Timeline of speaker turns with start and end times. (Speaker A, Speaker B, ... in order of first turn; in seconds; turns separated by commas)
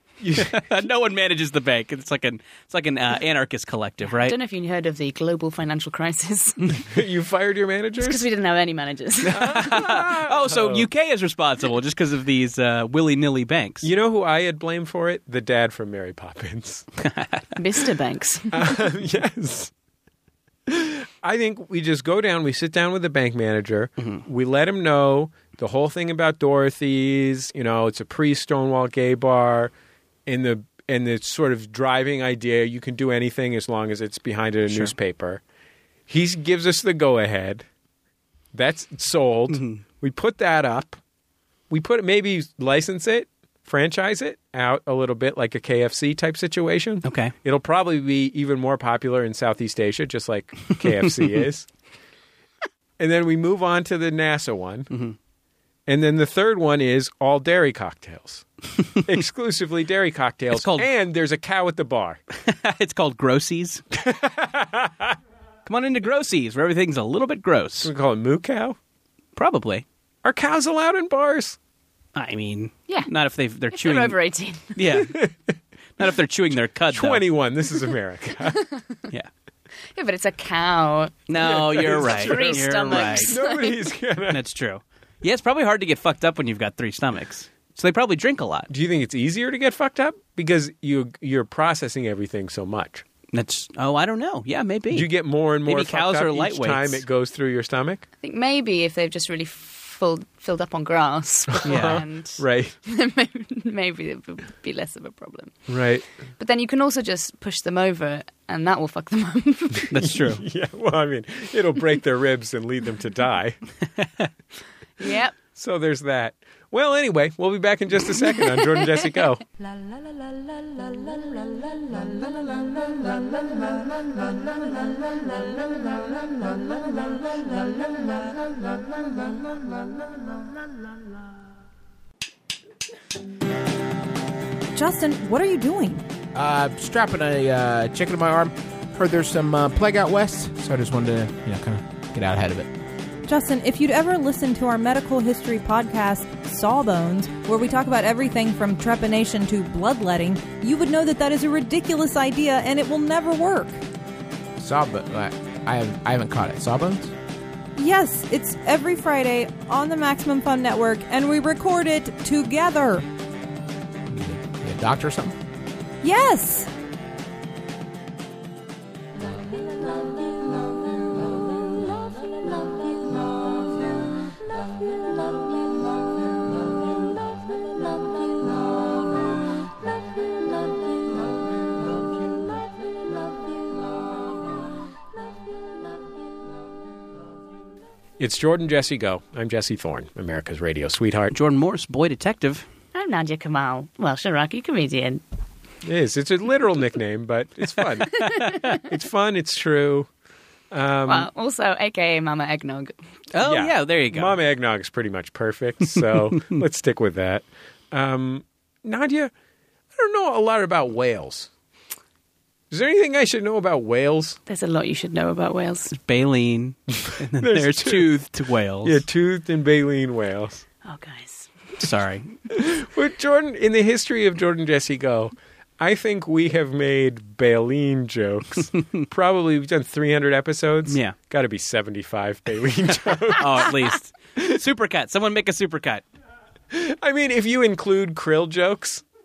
Speaker A: 0.2-0.7, Speaker B: 0.4-4.4, Speaker C: 4.1-6.8, Speaker A: 6.9-8.2, Speaker C: 8.0-9.7, Speaker B: 9.3-13.9, Speaker A: 9.3-10.9, Speaker A: 13.8-16.9, Speaker B: 17.0-17.4, Speaker C: 17.6-18.7, Speaker A: 18.5-19.7, Speaker A: 20.7-29.7, Speaker A: 30.3-35.4, Speaker A: 36.1-37.6, Speaker A: 38.5-41.0, Speaker B: 39.5-39.8, Speaker A: 41.7-51.7, Speaker B: 47.0-47.3, Speaker A: 53.0-54.9, Speaker B: 54.9-55.2, Speaker A: 55.9-58.5, Speaker A: 59.0-62.2, Speaker B: 60.5-60.9, Speaker B: 62.5-63.8, Speaker A: 63.9-65.2, Speaker B: 65.7-67.9, Speaker A: 67.8-68.8, Speaker B: 69.4-69.8, Speaker A: 70.2-71.6, Speaker B: 72.2-74.2, Speaker C: 73.7-74.8, Speaker B: 74.8-75.2, Speaker A: 75.0-75.3, Speaker B: 76.0-77.2, Speaker A: 76.9-78.7, Speaker C: 80.0-83.9, Speaker B: 81.3-83.3, Speaker A: 81.4-84.4, Speaker B: 84.3-88.7, Speaker A: 88.7-93.0, Speaker B: 93.3-95.1, Speaker A: 94.9-98.0, Speaker B: 95.6-97.0, Speaker C: 98.2-105.5, Speaker A: 101.6-102.8, Speaker B: 101.7-102.0, Speaker A: 105.7-106.0, Speaker C: 106.4-109.9, Speaker B: 109.9-110.4, Speaker A: 110.0-113.6, Speaker C: 115.0-115.4, Speaker A: 115.5-119.4, Speaker D: 134.8-136.0, Speaker E: 136.3-142.7, Speaker D: 143.3-153.8, Speaker E: 154.6-157.1, Speaker D: 157.8-163.1, Speaker E: 164.1-165.4, Speaker D: 166.0-166.7, Speaker A: 188.2-191.3, Speaker B: 191.3-192.7, Speaker C: 192.9-195.2, Speaker A: 195.8-200.1, Speaker A: 200.7-201.3, Speaker C: 201.1-202.9, Speaker B: 203.3-204.4, Speaker A: 203.4-209.3, Speaker A: 209.9-211.5, Speaker A: 212.7-214.4, Speaker C: 214.5-215.9, Speaker B: 215.9-219.0, Speaker A: 217.4-218.2, Speaker A: 218.8-220.6, Speaker C: 220.8-221.5, Speaker B: 221.8-222.3, Speaker A: 222.5-233.8, Speaker B: 230.9-231.2, Speaker B: 233.3-236.0, Speaker A: 236.7-239.0